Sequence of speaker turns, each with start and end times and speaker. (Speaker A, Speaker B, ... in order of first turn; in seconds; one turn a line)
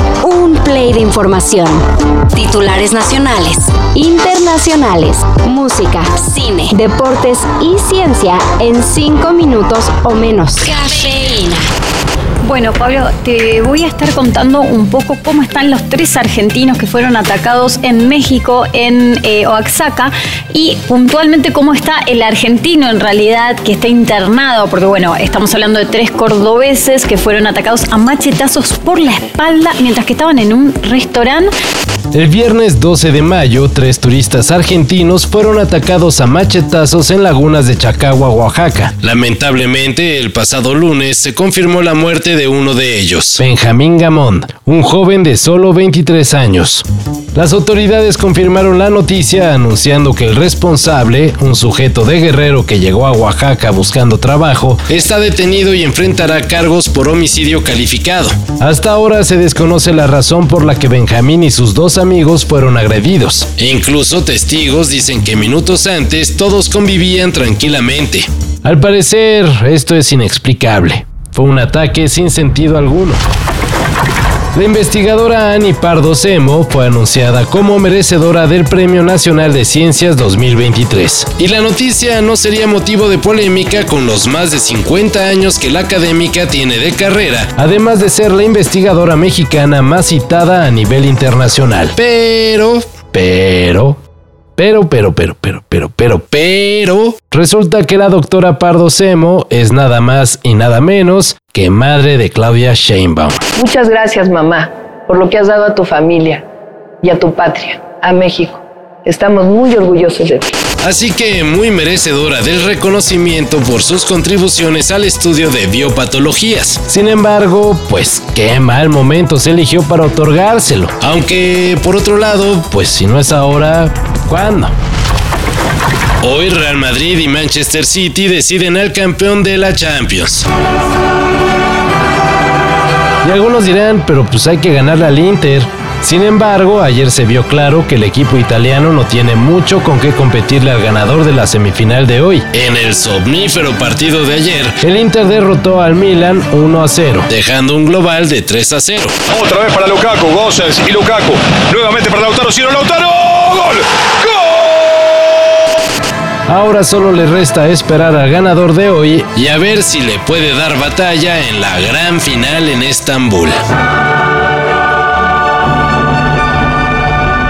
Speaker A: 0.2-1.8
Speaker A: 2.3-11.6
Speaker B: 12.4-31.5
Speaker C: 32.1-73.2
Speaker C: 74.5-94.0
Speaker C: 94.6-103.4
Speaker D: 103.6-106.5
Speaker D: 107.0-110.5
Speaker C: 110.8-124.7
Speaker C: 126.2-130.5
Speaker C: 133.2-149.2
Speaker E: 149.3-154.6
Speaker C: 156.5-163.6